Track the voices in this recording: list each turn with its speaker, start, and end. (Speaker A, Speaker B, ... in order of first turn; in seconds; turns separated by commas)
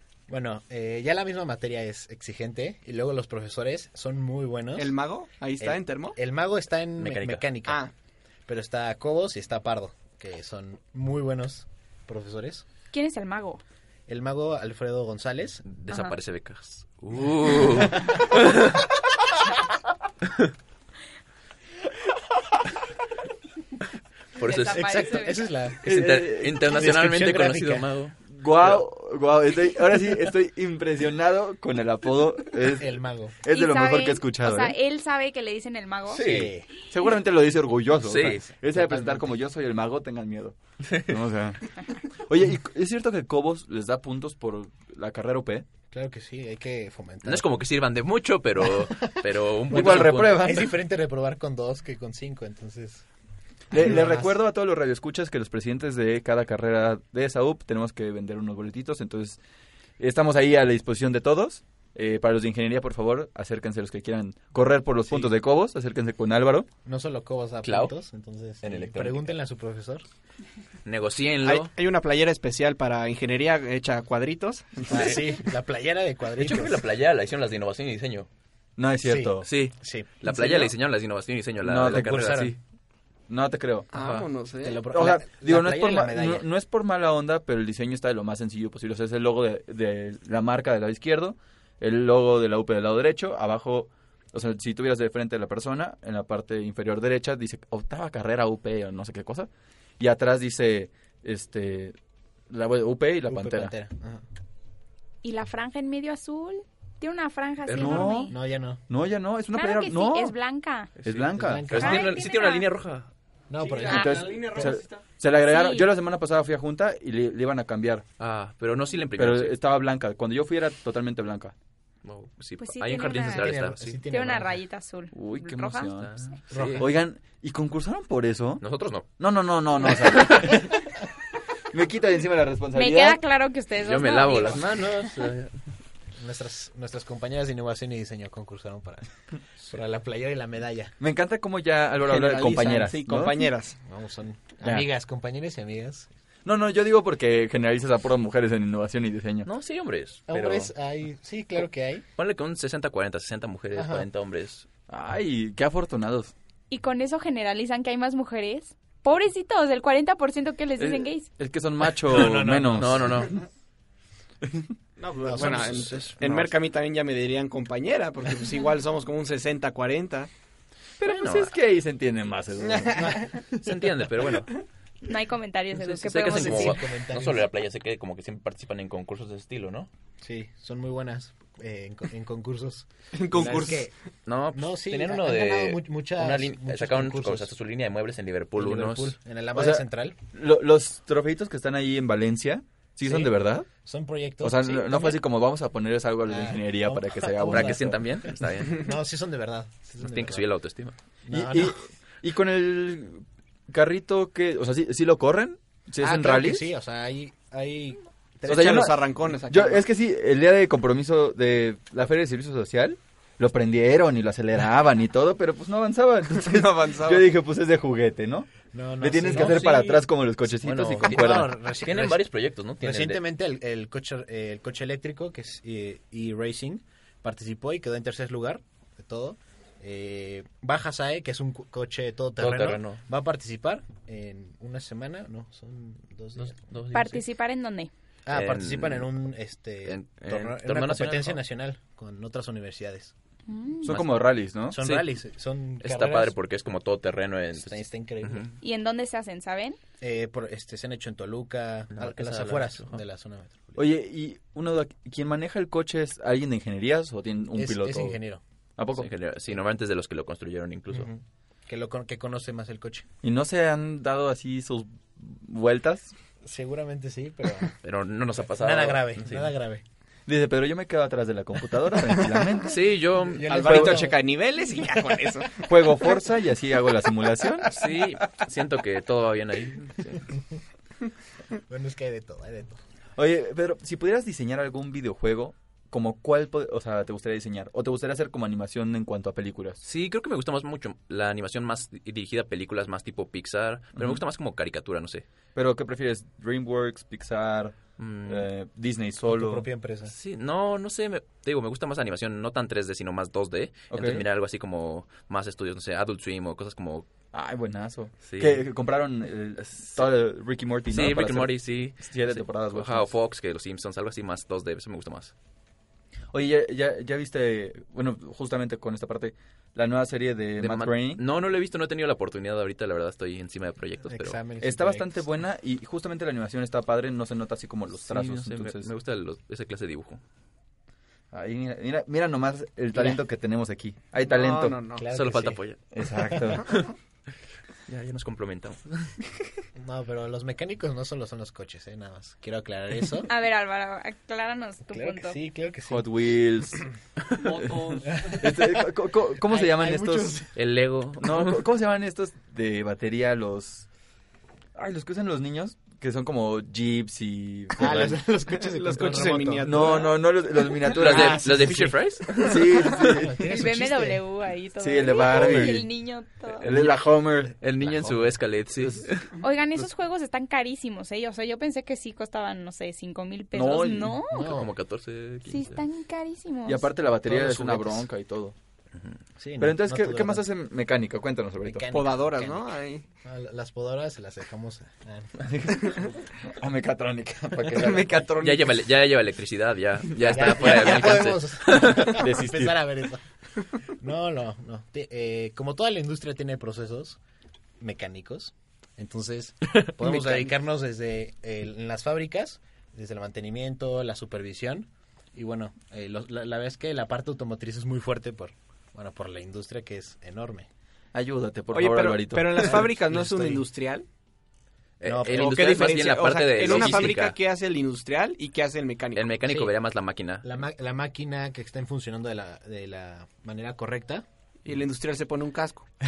Speaker A: 0.3-4.9, Speaker B: 4.8-6.2, Speaker A: 5.6-7.8, Speaker C: 7.0-7.5, Speaker B: 7.6-7.9, Speaker A: 8.5-12.6, Speaker D: 12.9-13.6, Speaker A: 14.1-15.6, Speaker C: 15.7-18.8, Speaker C: 24.4-25.2, Speaker D: 24.4-25.4, Speaker A: 24.7-25.9, Speaker C: 25.8-28.8, Speaker E: 25.8-26.7, Speaker A: 26.6-27.9, Speaker E: 28.3-34.8, Speaker A: 32.7-33.4, Speaker D: 33.5-36.2, Speaker C: 36.1-36.5, Speaker A: 36.1-36.7, Speaker E: 36.9-41.6, Speaker C: 38.0-38.4, Speaker A: 38.5-39.3, Speaker E: 42.2-45.6, Speaker A: 45.9-47.6, Speaker C: 47.2-50.6, Speaker A: 49.7-53.0, Speaker E: 49.7-50.7, Speaker E: 53.7-59.4, Speaker A: 53.7-54.3, Speaker E: 60.0-66.7, Speaker A: 66.8-70.0, Speaker C: 67.6-67.9, Speaker C: 68.6-69.3, Speaker C: 70.8-71.7, Speaker B: 71.4-75.0, Speaker A: 74.9-76.8, Speaker C: 76.4-78.3, Speaker E: 78.8-79.5, Speaker A: 79.0-80.7, Speaker C: 79.4-82.5, Speaker E: 81.6-82.6, Speaker A: 81.8-82.5, Speaker E: 83.3-83.9, Speaker B: 83.9-84.9, Speaker C: 83.9-84.3, Speaker A: 84.6-86.4, Speaker E: 84.9-102.0, Speaker E: 102.5-103.7, Speaker A: 103.3-104.2, Speaker D: 105.2-108.3, Speaker C: 107.7-108.1, Speaker E: 107.7-108.3, Speaker A: 108.3-108.8, Speaker E: 108.9-110.3, Speaker D: 109.5-110.9, Speaker C: 111.0-113.1, Speaker E: 111.0-111.9, Speaker A: 111.3-112.1, Speaker D: 111.8-112.7, Speaker A: 113.5-114.7, Speaker B: 113.6-115.0, Speaker E: 113.9-118.0, Speaker D: 113.9-114.2, Speaker D: 115.5-115.9, Speaker C: 118.2-119.6, Speaker E: 119.2-121.5, Speaker C: 122.0-124.0, Speaker D: 122.6-125.9, Speaker A: 123.2-124.6, Speaker E: 125.1-128.6, Speaker C: 126.0-126.8, Speaker A: 126.5-126.9, Speaker C: 128.6-129.1, Speaker E: 129.2-130.7, Speaker C: 130.0-130.6, Speaker E: 131.7-133.2, Speaker D: 132.7-134.6, Speaker C: 133.8-135.5, Speaker A: 136.2-140.9, Speaker E: 141.0-143.4, Speaker B: 142.0-143.8, Speaker A: 143.8-146.1, Speaker E: 144.6-144.9, Speaker E: 146.4-149.5, Speaker C: 149.4-150.7, Speaker A: 150.3-152.0, Speaker C: 152.2-154.7, Speaker A: 153.7-154.1, Speaker E: 154.9-156.3, Speaker D: 156.7-161.3, Speaker E: 160.8-163.3, Speaker A: 162.1-163.3, Speaker C: 162.8-163.3, Speaker B: 165.0-170.3, Speaker A: 165.2-166.5, Speaker E: 171.0-173.2, Speaker C: 171.0-171.5, Speaker A: 172.9-173.3, Speaker C: 173.6-174.5, Speaker D: 175.1-176.8, Speaker C: 175.8-179.9, Speaker A: 176.2-177.5, Speaker A: 180.2-183.9, Speaker B: 183.1-183.9, Speaker C: 184.2-189.2, Speaker A: 184.5-187.5, Speaker A: 188.6-190.2, Speaker E: 189.5-193.7, Speaker A: 193.0-195.2, Speaker E: 194.4-198.0, Speaker A: 196.3-200.4, Speaker C: 197.5-198.9, Speaker C: 200.0-200.9, Speaker A: 201.2-201.8, Speaker E: 201.3-206.7, Speaker A: 206.0-208.8, Speaker B: 208.4-209.8, Speaker E: 208.5-221.6, Speaker B: 216.6-217.2, Speaker A: 218.7-220.0, Speaker C: 219.3-219.9, Speaker C: 220.6-223.2, Speaker A: 220.6-222.2, Speaker A: 222.8-236.5, Speaker C: 232.4-233.0, Speaker C: 236.4-237.2, Speaker D: 236.9-237.9, Speaker A: 238.3-243.1, Speaker C: 238.3-239.1, Speaker C: 239.8-241.4, Speaker D: 243.5-243.9, Speaker E: 243.8-244.8, Speaker A: 244.7-246.3, Speaker C: 244.8-245.1, Speaker C: 245.8-248.5, Speaker A: 247.6-248.5, Speaker D: 248.6-249.8, Speaker A: 250.0-253.9, Speaker C: 251.9-253.0, Speaker E: 253.8-258.2, Speaker A: 257.6-258.4, Speaker E: 258.8-259.1, Speaker C: 258.9-261.1, Speaker A: 260.9-263.1, Speaker E: 263.2-266.1, Speaker A: 266.4-267.7, Speaker C: 267.8-269.5, Speaker A: 268.6-269.8, Speaker E: 270.3-272.8, Speaker C: 272.7-273.8, Speaker A: 273.3-274.1, Speaker B: 273.4-275.6, Speaker E: 273.5-274.1, Speaker E: 275.6-277.7, Speaker C: 277.7-280.2, Speaker A: 281.7-282.8, Speaker E: 283.2-289.8, Speaker C: 289.8-295.2, Speaker E: 295.5-299.6, Speaker C: 298.0-298.5, Speaker A: 299.3-300.1, Speaker C: 300.1-307.1, Speaker E: 303.9-304.2, Speaker E: 307.3-313.1, Speaker C: 308.2-308.6, Speaker C: 310.9-315.3, Speaker E: 316.3-321.2, Speaker C: 320.6-324.4, Speaker A: 324.1-325.1, Speaker E: 324.6-328.9, Speaker C: 328.1-330.2, Speaker E: 331.3-334.8, Speaker A: 332.9-333.2, Speaker B: 334.2-335.1, Speaker A: 335.0-335.6, Speaker C: 335.1-335.8, Speaker E: 335.9-336.7, Speaker C: 337.9-338.8, Speaker A: 339.8-343.3, Speaker D: 343.3-345.4, Speaker A: 344.9-346.1, Speaker E: 345.9-346.8, Speaker E: 347.4-350.4, Speaker A: 348.0-350.5, Speaker C: 350.6-351.6, Speaker E: 351.2-353.9, Speaker E: 354.7-358.2, Speaker A: 357.8-360.1, Speaker B: 358.6-360.2, Speaker E: 359.6-361.7, Speaker A: 360.9-364.2, Speaker C: 360.9-363.0, Speaker E: 362.4-363.5, Speaker D: 363.5-366.7, Speaker E: 364.8-365.9, Speaker C: 366.6-367.0, Speaker E: 366.6-368.1, Speaker C: 367.6-369.3, Speaker D: 369.4-374.5, Speaker E: 373.5-374.2, Speaker A: 374.3-374.7, Speaker C: 374.4-375.8, Speaker D: 375.5-376.9, Speaker E: 376.6-378.5, Speaker A: 377.3-378.0, Speaker A: 379.4-380.4, Speaker E: 379.6-381.8, Speaker A: 381.6-385.3, Speaker B: 381.9-383.0, Speaker E: 385.4-388.8, Speaker C: 388.4-392.3, Speaker A: 390.2-393.2, Speaker E: 390.3-390.8, Speaker E: 391.9-392.8, Speaker A: 394.0-397.2, Speaker A: 397.8-410.7, Speaker C: 400.0-400.5, Speaker E: 411.1-412.8, Speaker B: 411.7-414.1, Speaker A: 412.6-413.6, Speaker C: 415.0-417.4, Speaker A: 415.0-415.9, Speaker B: 415.3-419.6, Speaker A: 416.6-417.2, Speaker C: 419.1-420.4, Speaker A: 420.4-424.2, Speaker B: 424.6-425.9